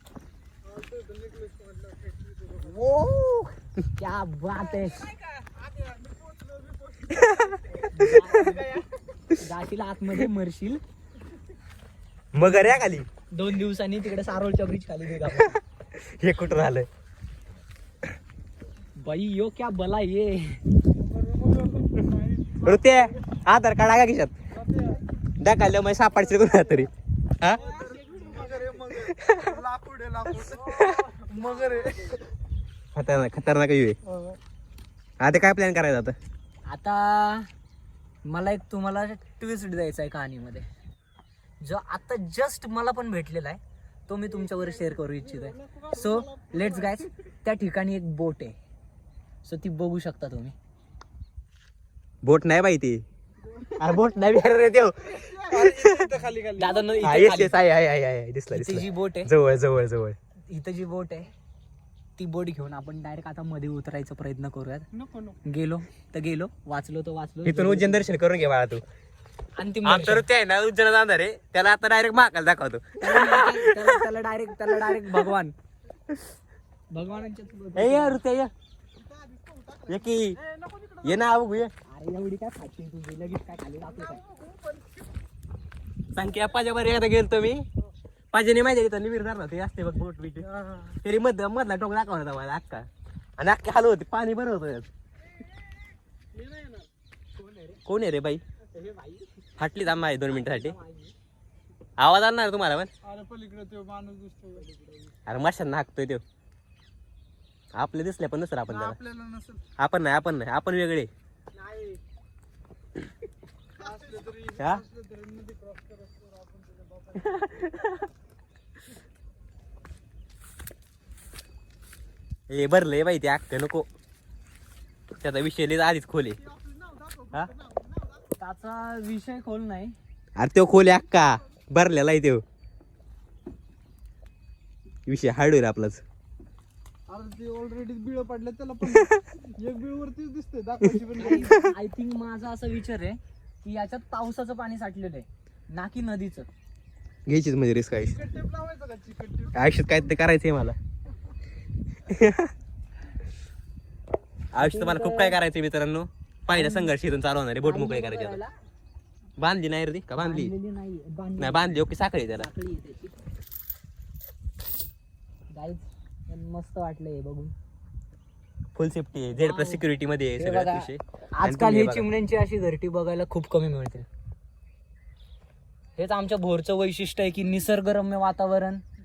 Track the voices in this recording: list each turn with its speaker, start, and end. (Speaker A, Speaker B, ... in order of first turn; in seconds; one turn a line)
Speaker A: 0.6-2.8
Speaker B: 2.6-5.1
Speaker A: 5.3-8.8
Speaker B: 7.9-8.8
Speaker B: 9.3-10.8
Speaker C: 12.3-13.1
Speaker B: 12.4-15.6
Speaker C: 15.2-16.9
Speaker B: 19.0-20.6
Speaker A: 21.0-23.2
Speaker C: 22.6-24.3
Speaker A: 24.5-25.0
Speaker C: 25.4-27.6
Speaker A: 27.5-32.2
Speaker B: 27.6-28.2
Speaker C: 28.9-29.6
Speaker C: 30.7-31.1
Speaker B: 31.3-31.9
Speaker C: 32.9-34.0
Speaker A: 34.0-34.4
Speaker C: 35.2-36.1
Speaker B: 36.7-37.5
Speaker B: 38.2-40.7
Speaker B: 41.6-48.6
Speaker A: 44.5-47.1
Speaker B: 49.4-50.5
Speaker C: 52.2-53.0
Speaker A: 53.4-53.9
Speaker C: 53.8-56.1
Speaker A: 55.1-57.4
Speaker B: 56.6-57.5
Speaker C: 57.0-60.2
Speaker B: 58.5-59.3
Speaker B: 60.5-61.3
Speaker B: 62.2-64.8
Speaker A: 64.9-65.4
Speaker B: 65.4-68.1
Speaker C: 67.4-68.8
Speaker B: 69.6-70.2
Speaker C: 69.8-74.0
Speaker B: 73.0-75.5
Speaker C: 74.7-75.3
Speaker B: 76.9-78.2
Speaker C: 77.7-78.5
Speaker A: 78.9-81.3
Speaker C: 79.9-80.4
Speaker C: 81.0-81.7
Speaker B: 81.9-84.2
Speaker A: 83.9-85.1
Speaker C: 86.1-87.7
Speaker C: 88.3-90.5
Speaker A: 90.5-91.0
Speaker C: 91.0-94.9
Speaker A: 96.3-96.8
Speaker B: 97.3-97.8
Speaker C: 97.8-98.4
Speaker B: 98.7-99.4
Speaker C: 99.6-100.8
Speaker B: 100.2-101.1
Speaker C: 102.0-102.9
Speaker A: 103.0-104.6
Speaker B: 104.6-105.1
Speaker C: 105.2-106.2
Speaker C: 107.7-109.0
Speaker A: 108.7-109.6
Speaker C: 109.8-111.1
Speaker A: 111.5-112.0
Speaker A: 113.8-117.6
Speaker C: 114.6-114.8
Speaker C: 117.2-118.1
Speaker C: 122.5-123.9
Speaker C: 125.2-126.4
Speaker A: 126.4-128.2
Speaker B: 128.4-130.0
Speaker C: 130.4-132.4
Speaker C: 135.1-136.0
Speaker A: 137.1-141.6
Speaker C: 138.8-139.2
Speaker B: 141.2-146.5
Speaker C: 141.3-141.7
Speaker C: 147.2-148.2
Speaker A: 148.0-149.9
Speaker C: 149.5-150.8
Speaker C: 152.1-152.5
Speaker C: 154.5-158.4
Speaker B: 154.6-155.4
Speaker B: 156.5-156.9
Speaker B: 157.6-158.5
Speaker C: 159.4-160.5
Speaker B: 160.2-161.8
Speaker C: 161.4-162.5
Speaker B: 162.3-163.2
Speaker B: 165.5-167.5
Speaker C: 168.7-172.1
Speaker B: 169.3-174.1
Speaker B: 176.0-178.8